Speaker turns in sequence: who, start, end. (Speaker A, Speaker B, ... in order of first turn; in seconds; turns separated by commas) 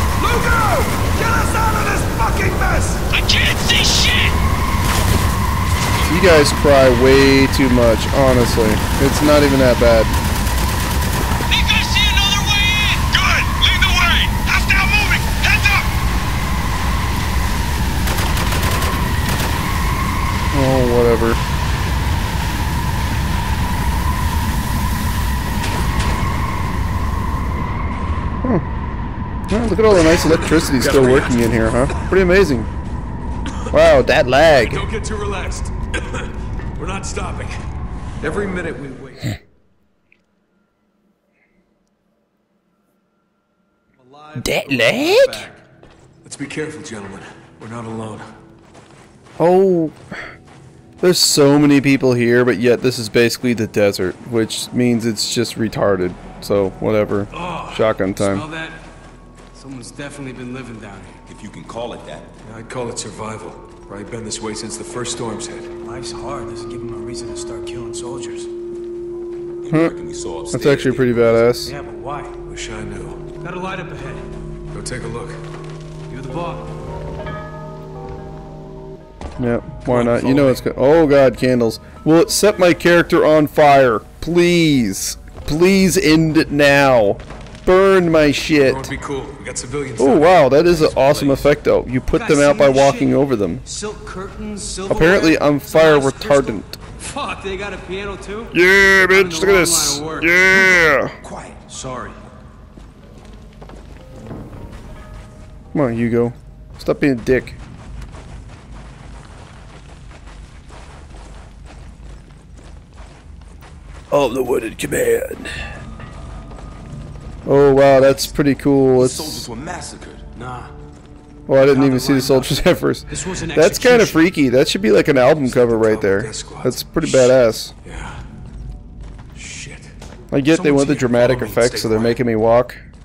Speaker A: 0.2-3.0, Speaker B: 3.1-4.4, Speaker C: 6.1-10.2, Speaker B: 11.5-15.9, Speaker C: 20.5-21.4, Speaker C: 29.5-32.7, Speaker D: 30.3-31.6, Speaker C: 33.7-34.9, Speaker D: 34.6-37.5, Speaker D: 38.2-39.4, Speaker D: 44.0-45.6, Speaker C: 44.4-45.4, Speaker D: 46.2-48.2, Speaker C: 49.4-50.0, Speaker C: 51.0-58.5, Speaker E: 57.4-58.8, Speaker E: 59.5-61.2, Speaker F: 61.3-62.3, Speaker D: 62.4-65.7, Speaker E: 65.8-68.5, Speaker F: 69.6-71.5, Speaker C: 69.7-70.0, Speaker C: 70.5-71.7, Speaker E: 71.6-72.4, Speaker D: 72.5-73.2, Speaker E: 73.4-74.3, Speaker D: 74.7-75.4, Speaker E: 76.1-76.7, Speaker C: 79.4-88.9, Speaker D: 79.8-80.7, Speaker D: 88.5-91.6, Speaker C: 90.0-93.6, Speaker E: 92.1-100.7, Speaker C: 94.9-96.8, Speaker C: 98.5-101.1, Speaker F: 101.2-101.6, Speaker E: 101.7-102.2, Speaker C: 105.7-107.6, Speaker C: 114.1-115.5, Speaker C: 117.5-119.5, Speaker F: 119.0-120.2, Speaker E: 120.3-120.7, Speaker C: 121.5-127.7, Speaker E: 121.5-124.3, Speaker D: 125.4-128.2, Speaker D: 129.3-129.9, Speaker C: 130.3-132.8, Speaker D: 130.6-132.2